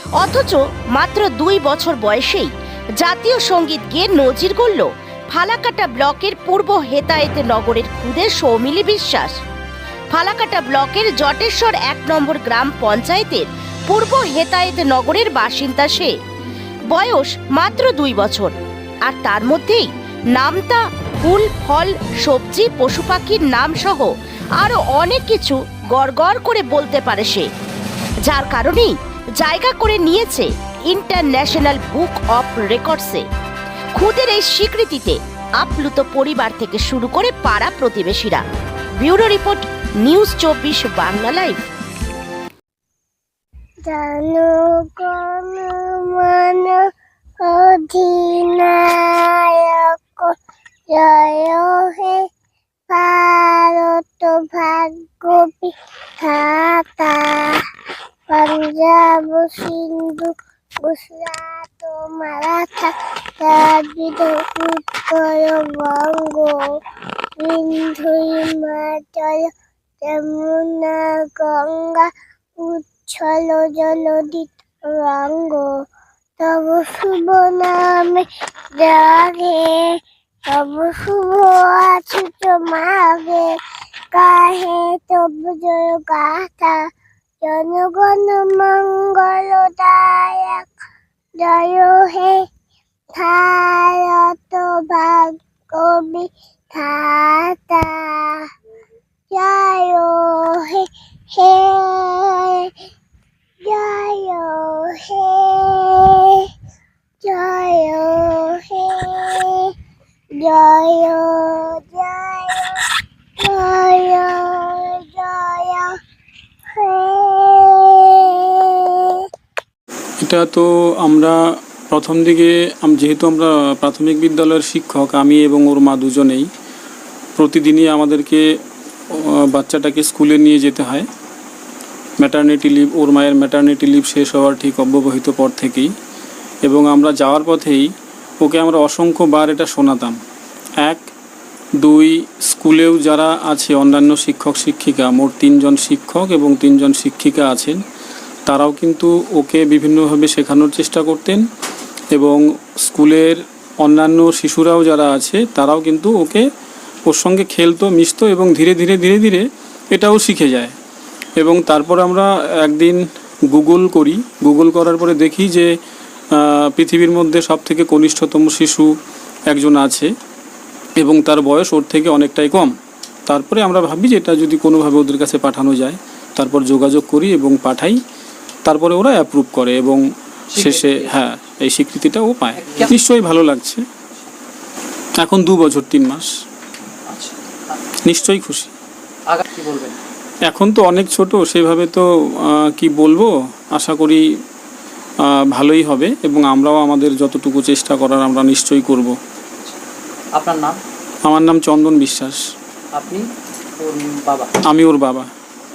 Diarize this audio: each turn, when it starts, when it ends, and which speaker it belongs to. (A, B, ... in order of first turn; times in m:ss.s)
0:00.2-0:09.3 A
0:10.1-0:16.1 A
0:16.9-0:18.5 A
0:19.0-0:27.5 A
0:28.3-0:33.2 A
0:34.0-0:38.4 A
0:39.0-0:41.6 A
0:43.9-0:46.9 B
0:47.4-0:50.3 B
0:50.9-0:52.2 B
0:52.9-0:57.6 B
0:58.3-1:06.7 B
1:07.4-1:09.5 B
1:10.0-1:15.8 B
1:16.4-1:23.6 B
1:24.1-1:26.9 B
1:27.4-1:30.7 B
1:31.4-1:32.4 B
1:33.2-1:38.5 B
1:39.3-1:42.7 B
1:43.6-1:46.5 B
1:47.2-1:49.7 B
1:50.4-1:52.8 B
1:53.4-1:55.9 B
1:56.7-1:59.2 B
2:00.2-2:06.5 C
2:07.4-2:08.4 C
2:09.1-2:11.1 C
2:12.2-2:15.9 C
2:16.6-2:20.2 C
2:20.8-2:21.0 C
2:21.8-2:27.8 C
2:28.5-2:31.4 C
2:32.1-2:36.4 C
2:37.1-2:40.7 C
2:41.4-2:45.7 C
2:46.3-2:48.9 C
2:49.5-2:50.1 C
2:51.0-2:52.7 C
2:53.3-2:58.0 C
2:58.6-3:00.0 C
3:00.5-3:01.2 D
3:00.5-3:03.8 C
3:02.6-3:02.9 D
3:05.2-3:06.3 C
3:07.1-3:07.8 D
3:08.0-3:08.7 C
3:09.3-3:10.0 D
3:10.5-3:14.2 C
3:15.2-3:19.1 C
3:20.4-3:20.8 D
3:21.2-3:22.4 C
3:23.0-3:23.2 D
3:23.8-3:24.5 D
3:24.7-3:25.3 C